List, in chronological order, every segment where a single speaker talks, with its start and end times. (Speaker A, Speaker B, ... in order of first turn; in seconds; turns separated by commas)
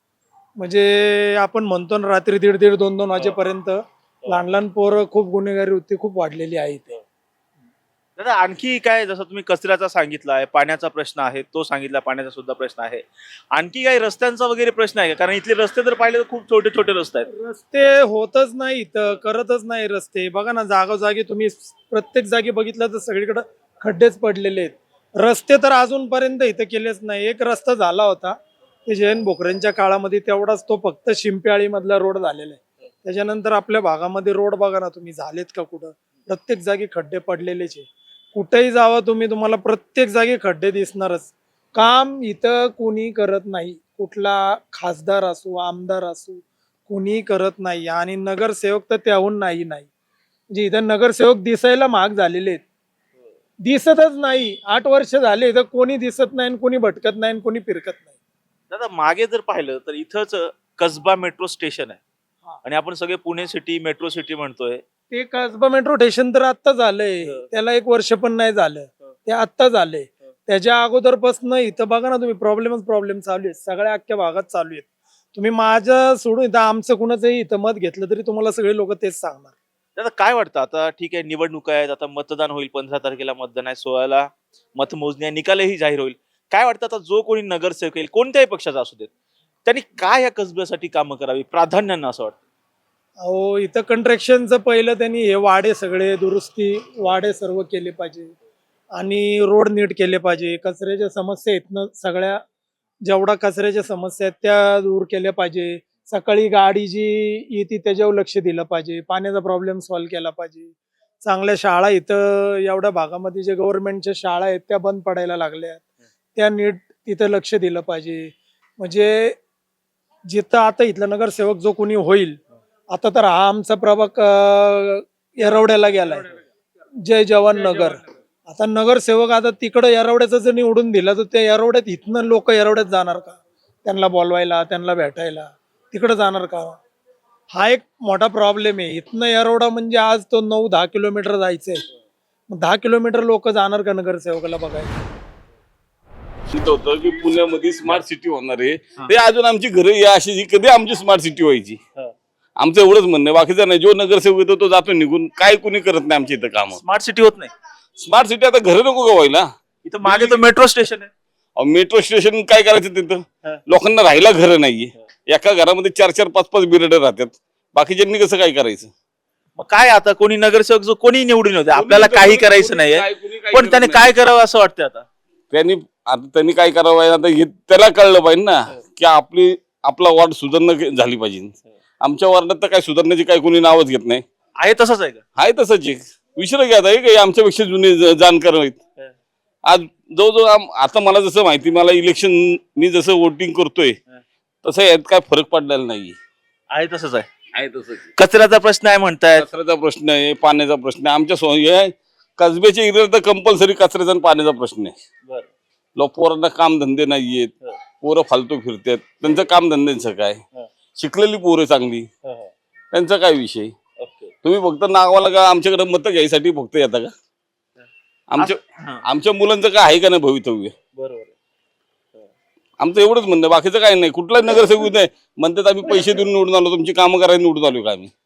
Speaker A: 0.6-7.0, Speaker B: 8.2-17.3, Speaker A: 17.4-49.9, Speaker A: 50.5-52.6, Speaker A: 53.6-58.1, Speaker B: 58.7-62.0, Speaker B: 62.6-64.8, Speaker A: 65.1-79.5, Speaker B: 80.0-89.1, Speaker B: 89.7-92.4, Speaker A: 93.2-98.3, Speaker A: 99.0-102.4, Speaker A: 103.0-115.8, Speaker A: 116.3-119.4, Speaker A: 120.3-122.4, Speaker A: 122.9-126.3, Speaker B: 126.0-126.4, Speaker A: 127.0-136.8, Speaker B: 127.5-128.1, Speaker A: 137.5-141.8, Speaker A: 142.5-144.9, Speaker C: 146.5-151.8, Speaker C: 152.6-156.8, Speaker B: 156.8-157.5, Speaker C: 158.0-159.5, Speaker B: 159.8-161.1, Speaker C: 160.0-160.4, Speaker C: 161.6-168.9, Speaker B: 169.6-175.1, Speaker C: 171.7-174.1, Speaker C: 175.5-184.2, Speaker B: 184.6-185.2, Speaker C: 185.4-188.8, Speaker C: 189.7-194.0, Speaker C: 194.6-196.2, Speaker B: 196.7-197.3, Speaker C: 197.5-198.1, Speaker B: 198.2-199.4, Speaker C: 199.3-204.9, Speaker C: 205.9-210.4, Speaker C: 211.0-212.1, Speaker B: 212.2-212.5, Speaker C: 212.9-213.7, Speaker B: 214.0-214.3, Speaker C: 214.4-217.1, Speaker C: 218.3-220.7, Speaker B: 218.4-219.0, Speaker B: 220.9-221.3, Speaker C: 222.8-228.1